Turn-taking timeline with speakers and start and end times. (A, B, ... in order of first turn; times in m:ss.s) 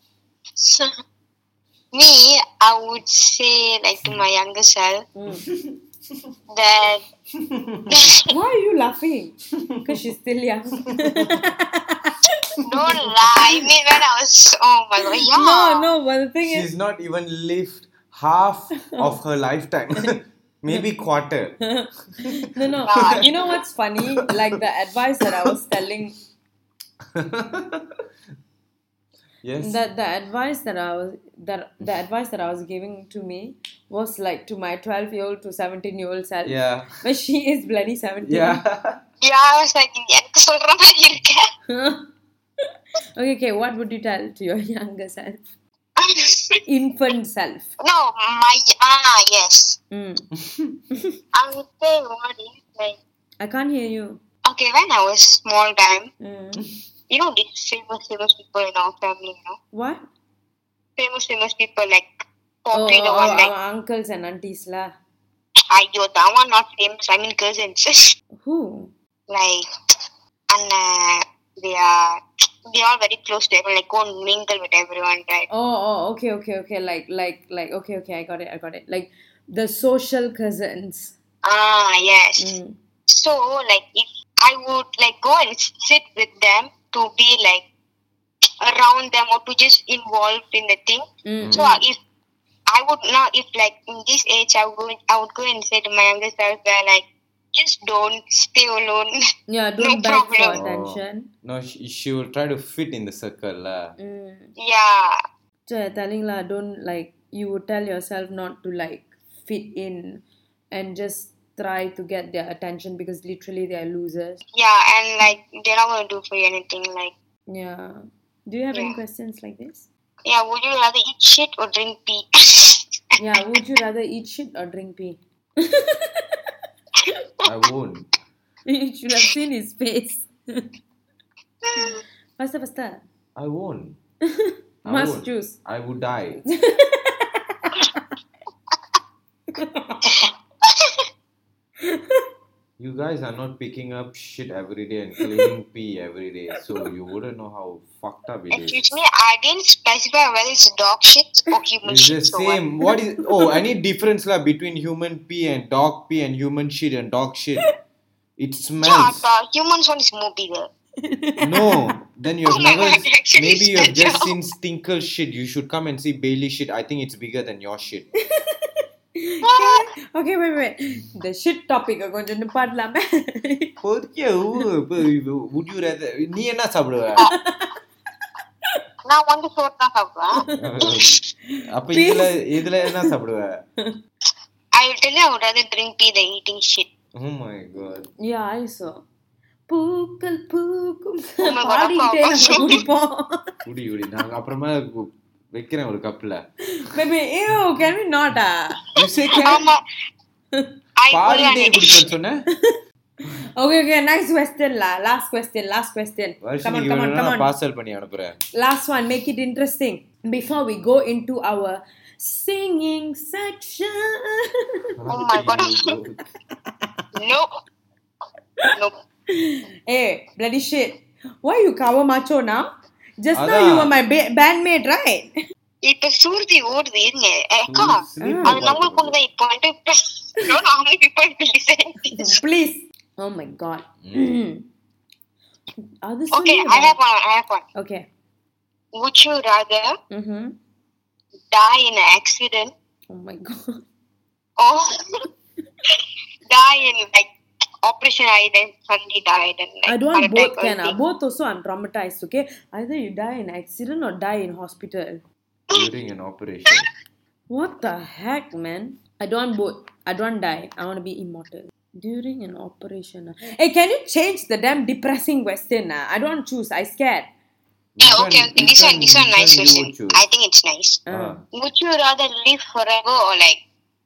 0:00.6-0:00.9 A
0:01.9-0:05.1 A
0:05.2-0:05.5 B
0:05.5-0:05.8 C
0:06.5-0:07.0 A
0:07.3-0:08.0 C
0:07.9-0:08.3 A
0:08.3-0:13.7 B
0:09.6-0:09.9 C
0:10.9-0:11.4 C
0:12.6-0:15.9 A
0:15.0-0:16.7 B
0:16.5-0:21.6 C
0:18.8-0:19.2 B
0:21.6-0:26.2 B
0:22.6-0:23.3 C
0:22.8-0:23.6 A
0:27.1-0:28.0 C
0:29.4-0:29.8 C
0:29.6-0:38.6 B
0:36.4-0:37.0 C
0:38.2-0:39.0 C
0:39.2-0:41.5 A
0:41.7-0:42.1 B
0:43.2-0:45.4 B
0:46.0-0:46.6 A
0:46.7-0:47.7 B
0:47.8-0:49.8 A
0:49.9-0:50.3 B
0:50.4-0:50.8 C
0:51.3-0:53.0 A
0:53.4-0:54.2 B
0:54.4-0:56.1 A
0:56.2-0:56.6 B
0:57.1-0:59.6 A
0:59.7-1:00.0 B
1:01.0-1:03.5 A
1:02.7-1:04.9 B
1:05.7-1:08.2 A
1:08.4-1:08.9 B
1:09.3-1:09.7 A
1:10.5-1:15.5 A
1:15.5-1:21.2 B
1:21.4-1:22.6 A
1:22.4-1:22.8 B
1:23.1-1:27.7 A
1:28.6-1:32.0 A
1:31.2-1:31.8 B
1:31.4-1:31.7 C
1:32.7-1:39.2 A
1:39.5-1:41.3 B
1:39.8-1:40.6 A
1:40.5-1:44.0 C
1:44.0-1:44.5 B
1:44.6-1:45.2 A
1:45.7-1:54.4 B
1:54.5-1:57.1 A
1:57.5-1:59.9 B
2:00.2-2:03.2 A
2:03.2-2:06.4 B
2:07.4-2:08.1 C
2:08.7-2:10.7 B
2:11.6-2:12.0 A
2:11.8-2:13.0 B
2:13.4-2:14.0 C
2:14.3-2:15.6 B
2:14.8-2:16.4 C
2:16.4-2:18.1 B
2:19.5-2:20.3 B
2:20.1-2:21.0 A
2:21.8-2:22.2 B
2:22.8-2:29.0 C
2:25.2-2:25.5 B
2:28.5-2:32.6 A
2:31.8-2:37.7 C
2:33.2-2:33.6 B
2:38.4-2:39.2 C
2:38.8-2:40.7 A
2:41.0-2:41.9 B
2:41.4-2:48.1 C
2:42.5-2:44.3 A
2:48.4-2:53.8 B
2:49.4-2:49.9 A
2:53.8-2:57.3 C
2:57.2-2:57.8 B
2:59.1-3:00.4 A
3:00.4-3:00.6 B
3:00.6-3:01.1 C
3:01.6-3:03.1 B
3:01.7-3:03.6 C
3:04.8-3:06.9 A
3:07.2-3:08.1 C
3:08.2-3:09.0 B
3:09.7-3:13.6 B
3:11.4-3:12.8 A
3:13.6-3:16.5 C
3:16.7-3:18.9 B
3:19.0-3:19.7 C
3:19.3-3:19.8 A
3:21.0-3:22.0 A
3:21.1-3:22.5 C
3:22.5-3:27.5 B
3:26.4-3:28.4 C
3:28.5-3:34.5 B
3:35.0-3:36.2 C
3:35.1-3:36.0 A
3:37.2-3:37.5 A
3:39.3-3:42.7 B
3:43.2-3:45.4 B
3:43.3-3:44.0 C
3:45.8-3:52.4 A
3:47.7-3:49.2 C
3:48.2-3:48.7 B
3:52.1-3:54.7 B
3:54.0-3:54.4 C
3:56.0-3:57.0 B
3:56.3-3:57.7 A
3:57.8-3:58.1 B
3:59.0-4:00.0 A
4:00.1-4:00.6 B
4:01.5-4:02.7 A
4:03.1-4:03.8 B
4:04.6-4:05.3 A
4:06.5-4:07.3 A
4:07.8-4:11.0 A
4:09.9-4:15.2 B
4:15.7-4:16.9 C
4:17.5-4:27.3 B
4:28.0-4:30.2 C
4:28.0-4:31.0 A
4:31.1-4:31.4 B
4:31.1-4:31.4 C
4:31.5-4:33.6 A